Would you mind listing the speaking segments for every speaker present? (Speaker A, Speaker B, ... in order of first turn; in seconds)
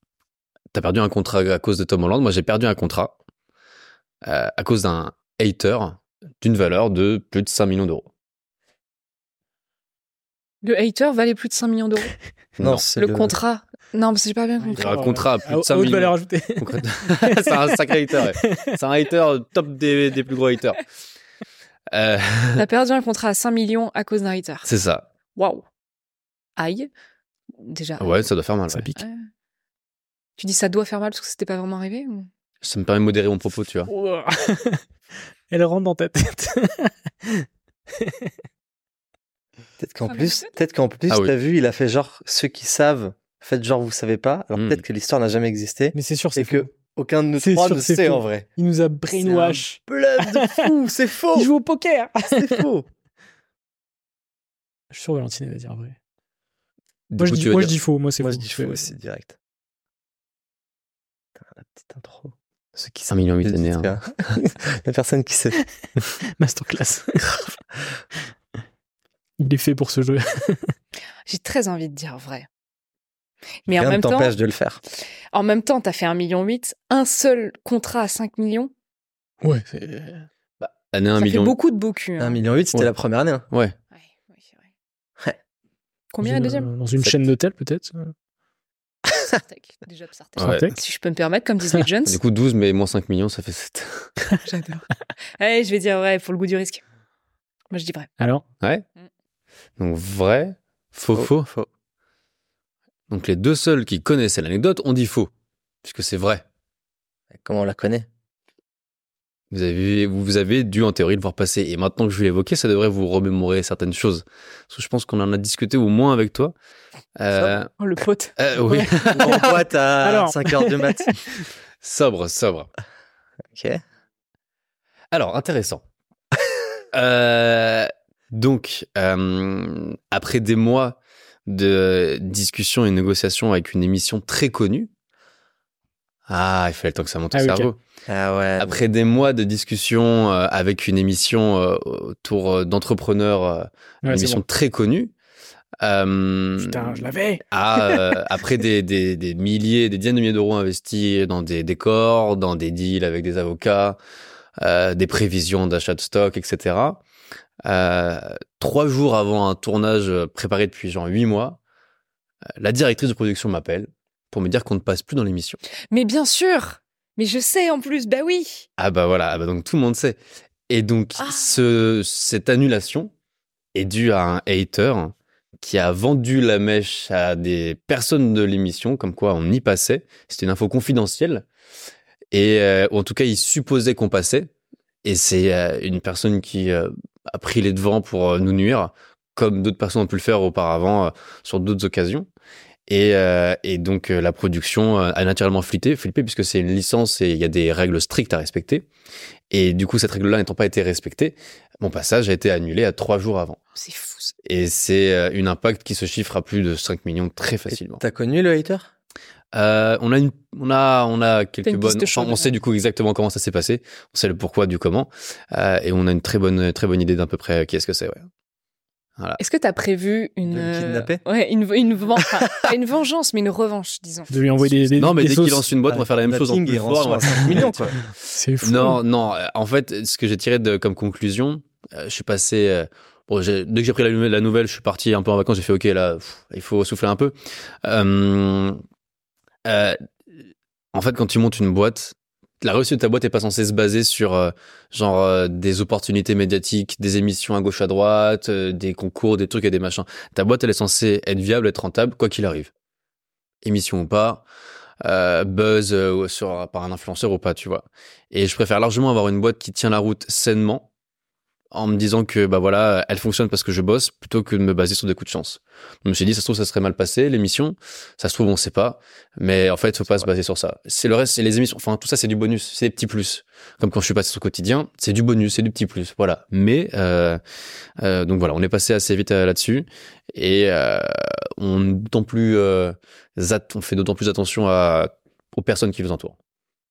Speaker A: 0.7-3.1, 4.2-8.1, 12.6-12.8, 14.8-20.8, 21.9-22.6, 24.6-25.1, 28.0-28.9, 32.6-33.9, 44.5-44.8, 57.1-57.8, 62.9-63.9, 80.6-81.5, 90.4-90.7, 92.0-94.1, 99.8-101.5, 103.1-105.3, 105.8-106.4, 109.5-116.5, 117.2-117.7, 118.4-119.5, 121.8-122.7, 125.1-125.8, 126.9-134.9, 136.3-137.8, 138.6-145.1, 145.8-154.0, 154.6-157.0, 157.6-161.6, 162.6-165.6, 168.8-173.1, 173.7-181.4, 182.3-184.5, 185.0-192.3, 192.9-198.8, 199.5-203.6, 204.4-208.0, 209.5-218.3, 225.0-238.8, 239.7-240.0, 240.9-252.7, 253.6-254.4, 255.0-260.9, 261.7-277.4, 278.0-286.4
Speaker B: 10.6-12.1, 12.9-14.9, 22.6-24.7, 25.3-25.6, 26.6-26.9, 27.6-28.2, 28.9-29.3, 30.4-32.3, 40.1-40.5, 71.2-72.5, 73.7-74.3, 75.3-78.7, 81.2-82.4, 83.9-84.6, 86.1-86.7, 89.3-92.2, 94.4-96.8, 97.7-98.1, 117.8-118.8, 165.9-168.7, 171.2-171.6, 203.7-204.3, 211.6-212.5, 219.4-224.7
Speaker C: 12.6-13.4, 39.8-48.5, 49.1-51.5, 52.3-52.9, 58.2-59.4, 61.4-66.0, 73.7-74.8, 82.2-83.4, 101.1-101.7, 107.3-108.0, 119.1-121.1, 123.5-123.8, 138.1-138.8, 207.7-208.9, 220.4-221.2, 225.9-227.9
Speaker D: 14.6-18.7, 28.7-29.0, 33.9-34.8, 35.5-37.5, 38.0-38.3, 45.9-46.7, 47.4-50.7, 51.3-52.6, 54.9-56.0, 57.2-58.9, 66.4-67.4, 69.4-70.7, 79.4-80.2, 86.2-88.1, 90.4-90.7, 120.0-121.2, 137.3-137.7, 144.0-144.4, 146.6-148.2, 224.3-225.6, 228.3-229.0